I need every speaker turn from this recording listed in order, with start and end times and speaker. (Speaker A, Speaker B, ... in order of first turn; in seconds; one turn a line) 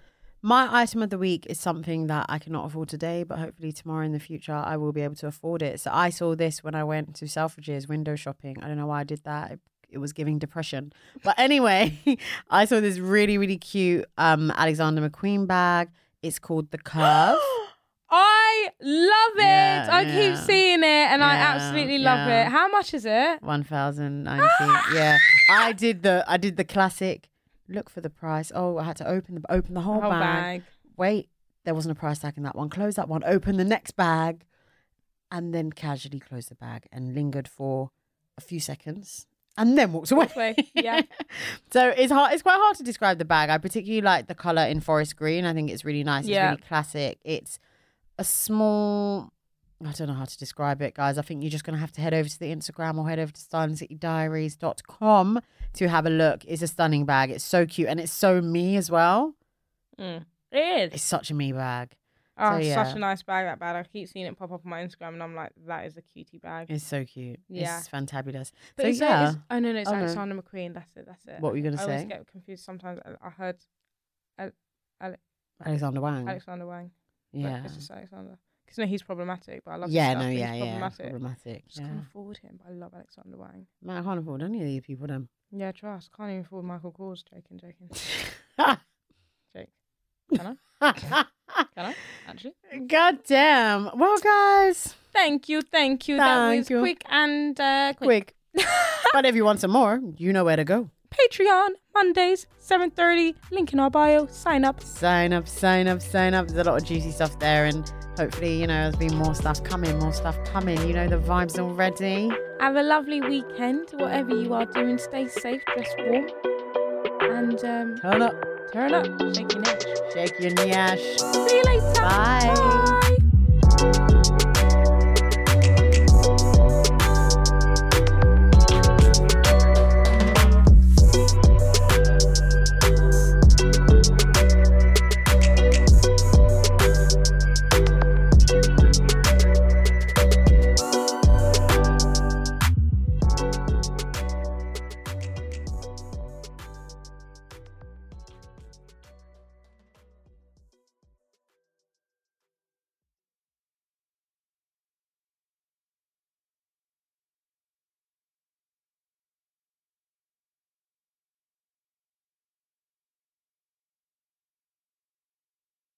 Speaker A: 0.4-17.5
Speaker B: 17.0-23.4
Speaker A: 19.4-20.6
Speaker A: 21.2-22.5
Speaker A: 23.4-34.5
Speaker B: 24.4-25.7
Speaker B: 29.9-30.7
Speaker A: 35.3-47.6
Speaker B: 40.1-41.0
Speaker B: 46.2-46.6
Speaker A: 48.2-59.3
Speaker B: 60.0-60.9
Speaker A: 60.9-63.0
Speaker B: 62.4-66.7
Speaker A: 66.7-70.2
Speaker B: 67.5-67.9
Speaker B: 68.8-73.6
Speaker A: 71.4-72.1
Speaker B: 74.4-75.2
Speaker A: 75.6-76.4
Speaker B: 76.2-81.2
Speaker A: 77.3-77.8
Speaker A: 79.8-82.0
Speaker B: 81.7-83.7
Speaker A: 83.8-85.3
Speaker B: 85.5-88.0
Speaker A: 88.2-88.8
Speaker B: 90.3-91.0
Speaker A: 90.8-91.6
Speaker B: 91.7-92.6
Speaker A: 92.7-95.0
Speaker B: 95.1-99.2
Speaker A: 96.2-96.9
Speaker A: 98.0-98.3
Speaker A: 99.1-100.9
Speaker B: 101.1-104.8
Speaker A: 104.8-112.4
Speaker B: 112.6-116.3
Speaker B: 117.3-118.0
Speaker A: 118.0-118.4
Speaker B: 118.7-120.0
Speaker A: 120.1-121.3
Speaker B: 121.4-123.2
Speaker A: 122.0-123.0